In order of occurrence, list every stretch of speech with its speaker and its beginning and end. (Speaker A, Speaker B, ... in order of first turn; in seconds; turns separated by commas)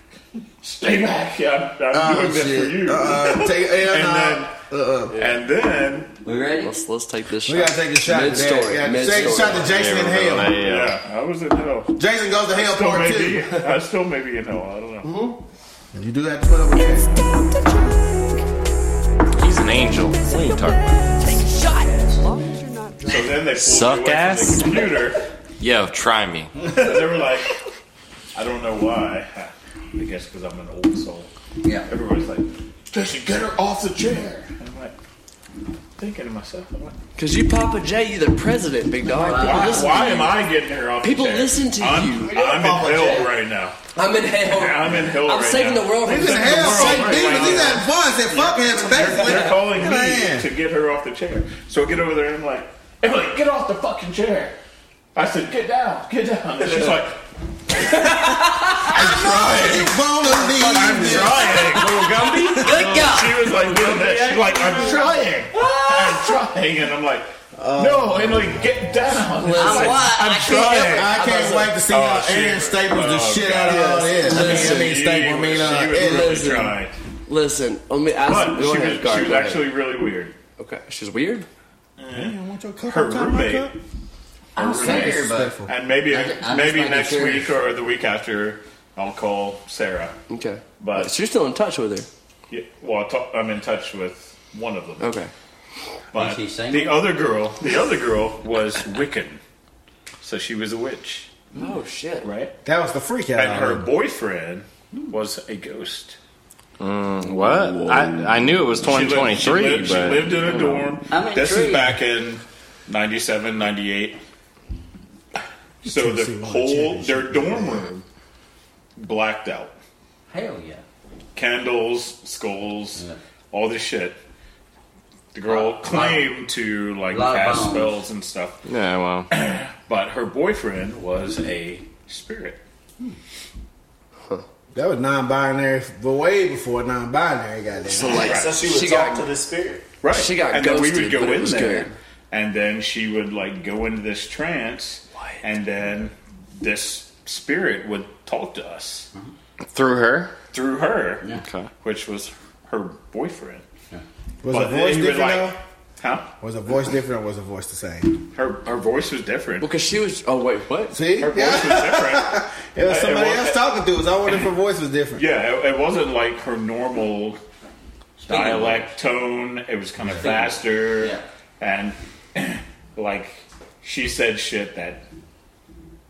Speaker A: 0.6-4.5, Speaker B: 1.9-5.2, Speaker A: 5.1-6.2, Speaker C: 6.2-6.7, Speaker D: 6.6-9.7, Speaker B: 7.5-10.6, Speaker E: 9.6-11.0, Speaker A: 10.6-12.0, Speaker B: 11.9-13.6, Speaker A: 12.5-15.3, Speaker D: 15.1-15.3, Speaker B: 15.9-17.1, Speaker E: 19.4-21.0, Speaker D: 21.5-23.1, Speaker A: 23.0-25.2, Speaker E: 23.5-24.8, Speaker E: 25.6-26.5, Speaker A: 26.6-27.6, Speaker A: 28.3-31.3, Speaker C: 31.6-31.9, Speaker A: 31.9-34.9, Speaker A: 36.0-37.0, Speaker D: 37.2-40.4, Speaker C: 39.1-40.2, Speaker A: 39.2-43.8, Speaker D: 41.0-42.3, Speaker F: 42.2-43.3, Speaker D: 43.9-47.4, Speaker A: 44.4-54.5, Speaker B: 46.0-50.5, Speaker A: 55.1-57.2, Speaker A: 57.7-71.2, Speaker D: 57.9-58.8, Speaker B: 58.9-61.6, Speaker D: 60.5-62.7, Speaker C: 61.6-63.6, Speaker E: 61.9-62.5, Speaker D: 63.7-64.9, Speaker C: 65.5-66.2, Speaker B: 67.6-68.6, Speaker D: 69.4-70.0, Speaker C: 69.5-71.8, Speaker B: 70.9-76.5, Speaker A: 71.8-76.9, Speaker D: 73.7-74.9, Speaker D: 75.9-79.6, Speaker A: 78.2-80.3, Speaker D: 80.6-81.5, Speaker A: 82.0-83.8, Speaker B: 82.1-83.7, Speaker C: 84.5-87.5, Speaker A: 84.5-90.1, Speaker B: 84.7-85.7, Speaker D: 90.3-92.1, Speaker A: 90.8-91.1, Speaker A: 92.5-95.1, Speaker D: 95.0-95.3, Speaker A: 96.1-99.4, Speaker C: 96.1-97.1, Speaker A: 100.2-101.3, Speaker D: 101.5-102.3, Speaker A: 102.2-102.5, Speaker B: 102.6-103.9, Speaker A: 103.3-106.2, Speaker E: 106.8-110.8, Speaker D: 107.3-108.2, Speaker A: 108.8-114.2, Speaker C: 111.1-112.0, Speaker A: 115.4-118.0, Speaker B: 115.8-117.9, Speaker A: 119.0-119.7, Speaker C: 120.3-120.8, Speaker A: 121.3-124.2, Speaker A: 125.3-128.6, Speaker C: 125.5-126.4, Speaker C: 127.1-128.0, Speaker E: 128.7-129.3, Speaker A: 129.3-132.6, Speaker B: 134.7-138.3, Speaker D: 137.9-139.3, Speaker A: 138.2-138.7, Speaker F: 138.2-139.9, Speaker A: 140.0-149.1, Speaker D: 140.1-141.9, Speaker E: 149.7-150.3, Speaker A: 150.5-151.3, Speaker E: 151.3-151.7, Speaker A: 151.8-153.6, Speaker B: 154.4-155.6, Speaker A: 154.5-156.3, Speaker B: 156.4-158.2, Speaker A: 158.3-159.7, Speaker D: 159.6-161.0, Speaker B: 160.9-165.2, Speaker A: 161.2-163.6, Speaker A: 165.2-167.4, Speaker C: 168.2-168.9, Speaker A: 168.2-175.0, Speaker C: 170.2-171.2